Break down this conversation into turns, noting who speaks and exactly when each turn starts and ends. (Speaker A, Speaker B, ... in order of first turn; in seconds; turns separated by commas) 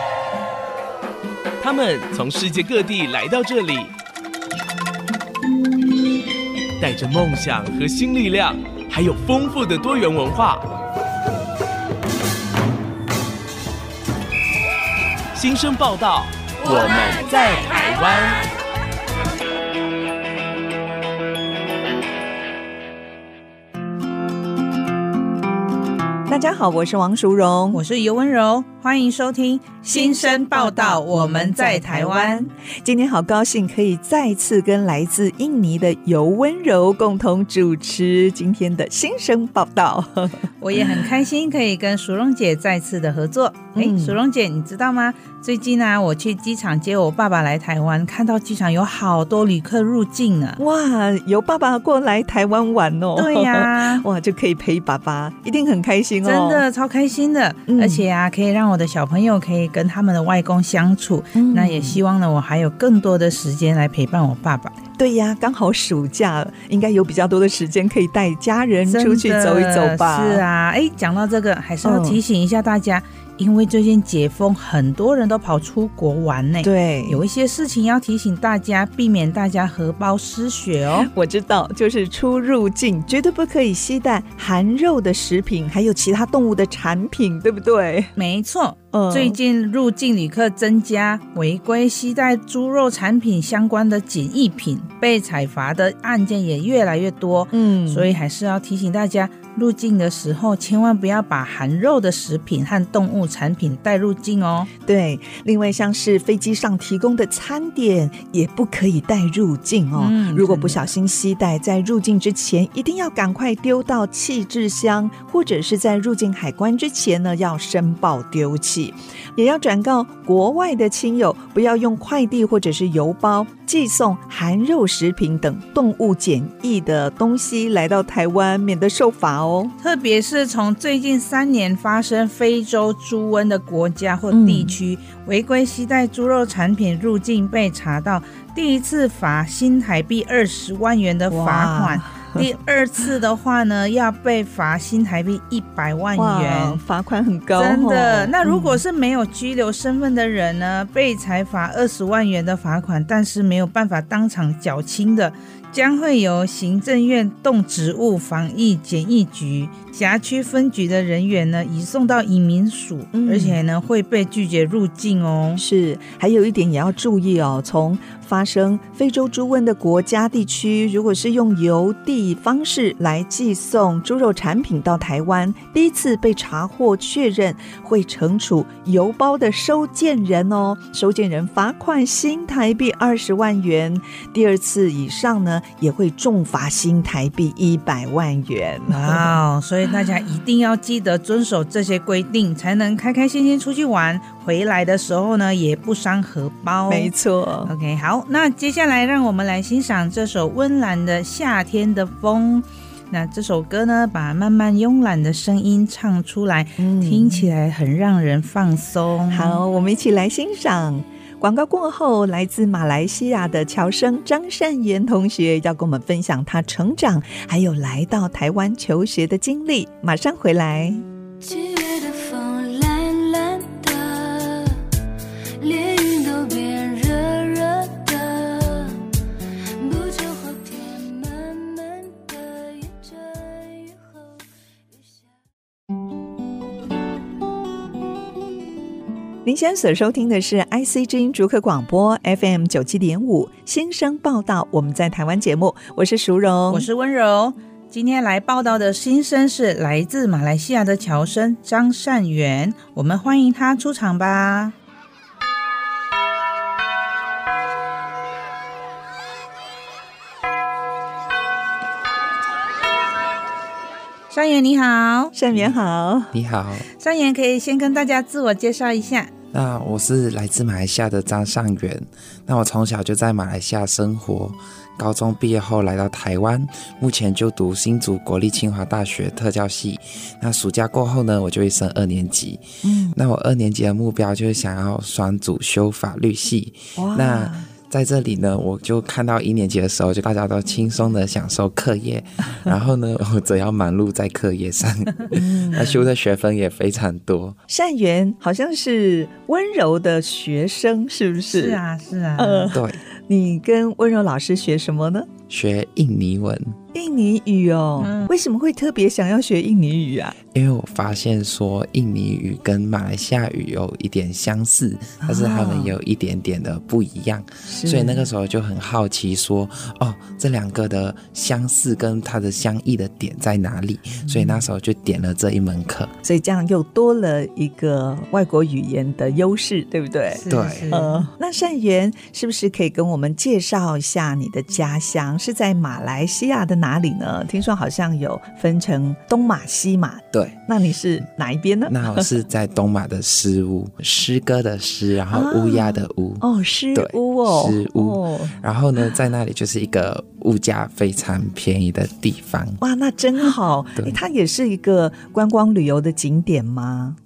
Speaker A: 1.6-3.9, Speaker A: 6.8-10.7, Speaker A: 15.3-18.4, Speaker B: 26.3-27.8, Speaker C: 27.7-32.5, Speaker B: 29.9-40.8, Speaker C: 40.6-50.6, Speaker B: 43.7-44.2, Speaker B: 50.6-56.6, Speaker C: 53.1-54.0, Speaker C: 56.2-64.8, Speaker B: 57.7-58.0, Speaker B: 61.3-62.0, Speaker B: 65.0-70.4, Speaker C: 68.9-81.1, Speaker B: 71.8-72.2, Speaker B: 76.6-77.2, Speaker B: 81.0-88.1, Speaker C: 88.2-104.7, Speaker B: 88.9-89.4, Speaker B: 97.5-98.1, Speaker B: 104.8-129.7, Speaker C: 110.0-110.8, Speaker C: 129.8-146.8, Speaker B: 134.3-134.7, Speaker B: 141.3-142.4, Speaker B: 146.2-148.8, Speaker C: 147.6-165.6, Speaker B: 163.1-163.6, Speaker B: 165.6-189.4, Speaker C: 188.9-197.1, Speaker B: 196.9-197.7, Speaker C: 197.6-209.6, Speaker B: 206.8-207.5, Speaker B: 209.3-221.0, Speaker D: 221.4-224.9, Speaker D: 225.6-235.3, Speaker B: 239.4-246.9, Speaker C: 246.7-254.7, Speaker C: 264.3-265.3, Speaker B: 265.3-266.3, Speaker E: 266.3-266.9, Speaker C: 267.0-269.3, Speaker E: 269.5-282.6, Speaker B: 282.8-283.1, Speaker E: 283.1-297.6, Speaker B: 286.9-287.7, Speaker B: 295.3-296.1, Speaker B: 297.7-301.8, Speaker C: 301.5-302.7, Speaker B: 302.4-305.3, Speaker E: 302.7-303.0, Speaker E: 305.5-306.8, Speaker B: 306.9-310.4, Speaker C: 308.0-308.3, Speaker E: 310.5-326.1, Speaker B: 315.2-315.9, Speaker B: 317.7-318.2, Speaker C: 324.2-324.6, Speaker B: 326.2-342.3, Speaker C: 330.3-331.3, Speaker E: 330.5-330.9, Speaker E: 340.3-340.6, Speaker E: 341.9-352.8, Speaker B: 345.3-348.5, Speaker B: 352.8-357.2